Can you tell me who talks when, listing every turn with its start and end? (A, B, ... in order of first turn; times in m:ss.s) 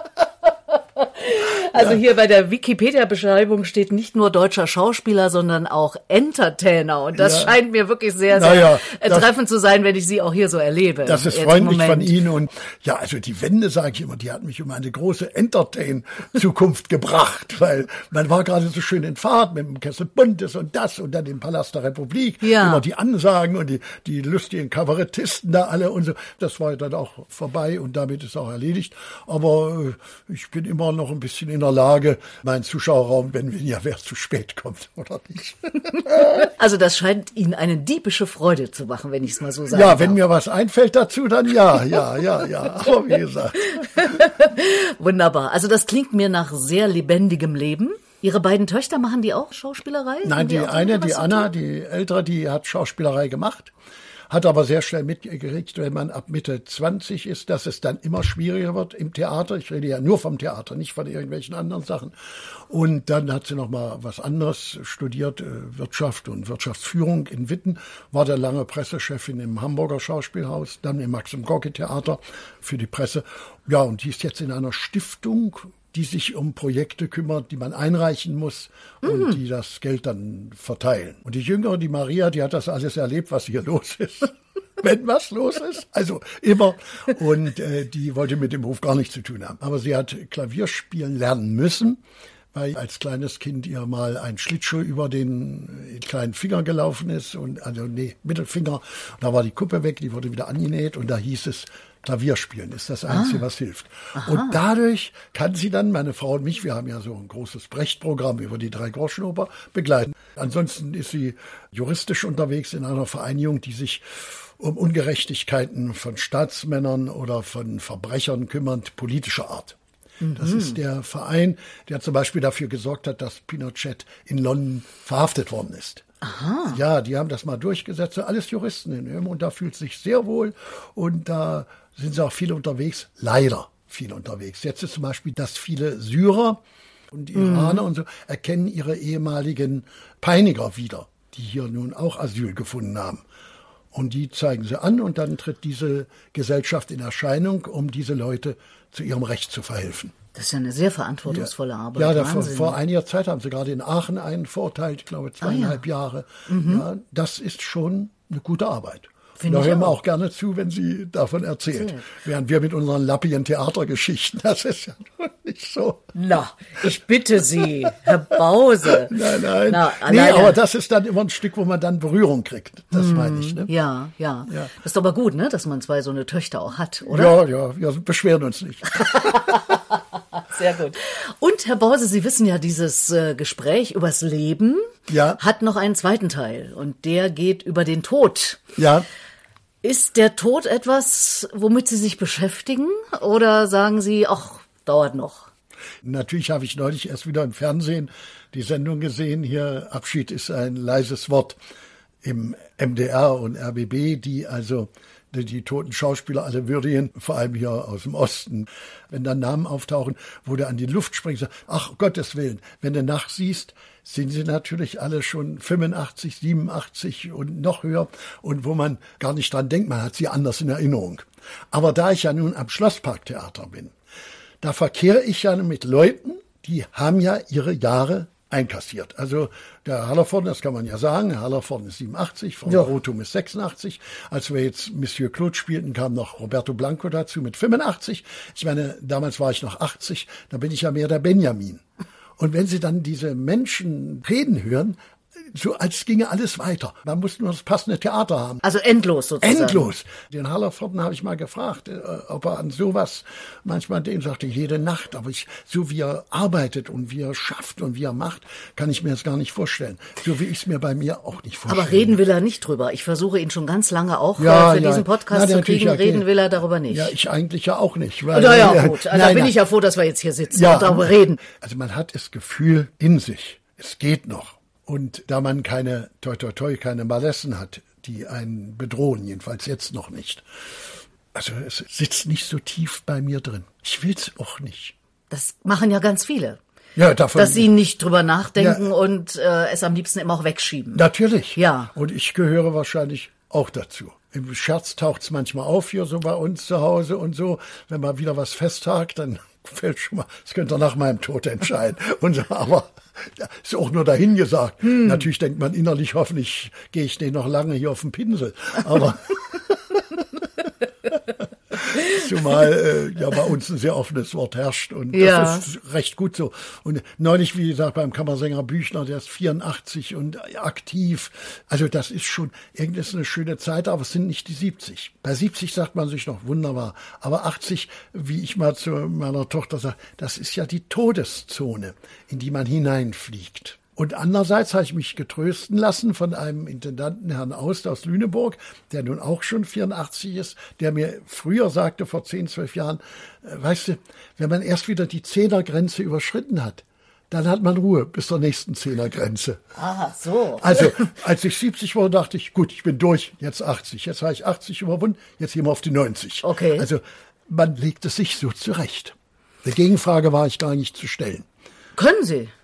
0:01.0-0:12.2 A
0:01.7-0:02.0 B
0:07.1-0:07.6 B
0:08.3-0:09.3 B
0:11.0-0:36.5 B
0:22.4-0:22.8 A
0:36.2-0:40.2 A
0:39.7-0:44.2 B
0:43.7-0:51.5 A
0:50.2-0:53.7 B
0:54.3-1:02.1 B
1:02.7-1:32.0 B
1:19.0-1:19.4 A
1:32.5-1:59.8 B
1:43.1-1:43.4 A
1:44.1-1:44.6 A
2:00.2-2:00.8 A
2:00.4-2:06.0 B
2:06.2-2:06.8 A
2:06.7-2:16.6 B
2:17.1-2:23.2 B
2:17.4-2:17.8 A
2:23.9-2:30.1 B
2:30.4-2:32.8 A
2:31.3-2:46.1 B
2:35.4-2:35.8 A
2:36.5-2:36.8 A
2:39.4-2:39.9 A
2:41.7-2:42.0 A
2:46.1-2:50.6 A
2:47.6-2:47.9 B
2:48.9-2:53.7 B
2:52.9-2:57.4 A
2:57.1-2:59.6 B
2:59.0-3:08.6 A
3:05.1-3:05.4 B
3:08.8-3:09.1 B
3:09.8-3:15.5 A
3:16.0-3:21.6 B
3:22.2-3:43.9 B
3:44.6-4:01.8 B
4:02.4-4:08.6 B
4:08.6-4:09.9 A
4:09.4-4:22.2 B
4:21.7-4:27.1 A
4:24.4-4:26.3 B
4:26.9-4:29.6 B
4:28.3-4:31.4 A
4:30.5-4:40.4 B
4:41.3-4:44.9 B
4:45.3-4:46.6 A
4:47.0-4:47.7 B
4:47.3-4:51.0 A
4:48.6-4:48.8 B
4:50.9-5:10.0 B
4:51.6-4:51.9 A
5:04.8-5:05.2 A
5:11.7-5:49.6 B
5:15.1-5:15.7 A
5:49.8-5:51.1 A
5:50.6-6:01.4 B
5:56.4-5:56.9 A
6:02.0-6:02.5 A